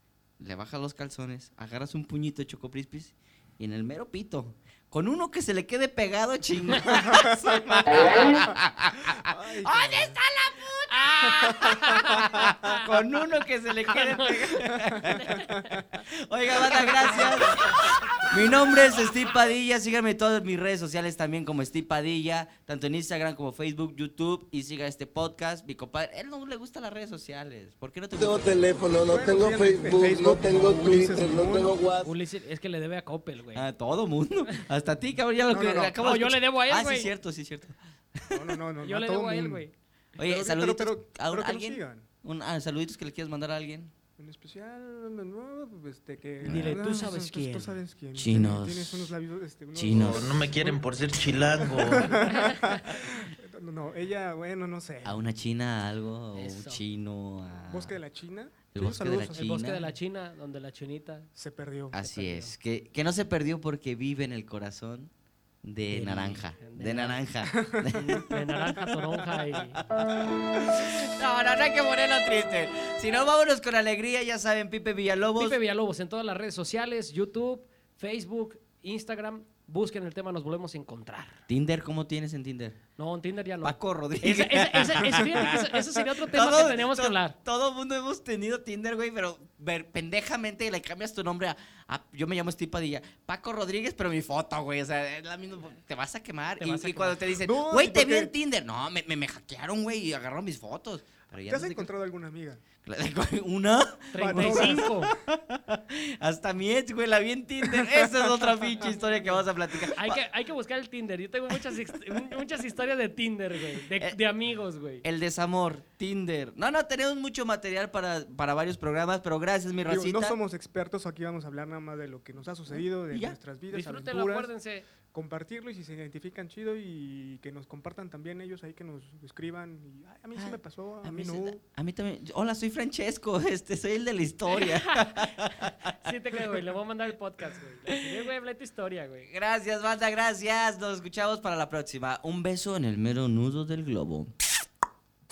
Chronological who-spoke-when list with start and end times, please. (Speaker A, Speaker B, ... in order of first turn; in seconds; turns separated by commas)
Speaker A: 0.4-28.8, Speaker B: 6.9-8.5, Speaker B: 9.2-10.2, Speaker C: 10.9-12.9, Speaker B: 11.4-12.3, Speaker C: 13.9-15.8, Speaker B: 14.6-15.8, Speaker C: 16.7-18.3, Speaker D: 28.1-32.1, Speaker B: 29.0-31.8, Speaker C: 32.0-33.6, Speaker A: 33.5-38.5, Speaker B: 35.5-36.2, Speaker C: 36.0-37.1, Speaker B: 38.3-39.6, Speaker C: 38.8-39.7, Speaker A: 40.2-43.9, Speaker B: 40.2-42.1, Speaker B: 44.2-50.5, Speaker C: 46.4-47.8, Speaker A: 46.4-46.9, Speaker A: 48.1-49.1, Speaker A: 49.7-50.3, Speaker E: 49.9-52.2, Speaker B: 51.8-55.2, Speaker C: 52.0-52.8, Speaker A: 55.0-58.0, Speaker C: 56.4-56.8, Speaker B: 57.7-59.7, Speaker A: 58.7-59.8, Speaker C: 59.4-61.3, Speaker B: 61.3-62.0, Speaker A: 61.9-65.1, Speaker C: 62.0-62.5, Speaker A: 65.6-68.8, Speaker C: 65.9-67.2, Speaker B: 67.5-68.2, Speaker C: 67.9-69.8, Speaker A: 69.9-75.6, Speaker C: 75.3-81.4, Speaker A: 81.5-82.8, Speaker C: 83.0-87.3, Speaker A: 83.6-101.9, Speaker C: 96.6-97.2, Speaker B: 97.4-98.3, Speaker B: 101.4-102.6, Speaker A: 102.8-110.2, Speaker C: 104.1-105.1, Speaker B: 104.2-104.9, Speaker C: 110.0-115.0, Speaker A: 115.0-120.4, Speaker B: 119.8-124.5, Speaker A: 123.1-123.4, Speaker C: 123.7-124.9, Speaker B: 125.1-131.6, Speaker A: 130.3-135.9, Speaker C: 134.5-139.3, Speaker A: 139.2-144.3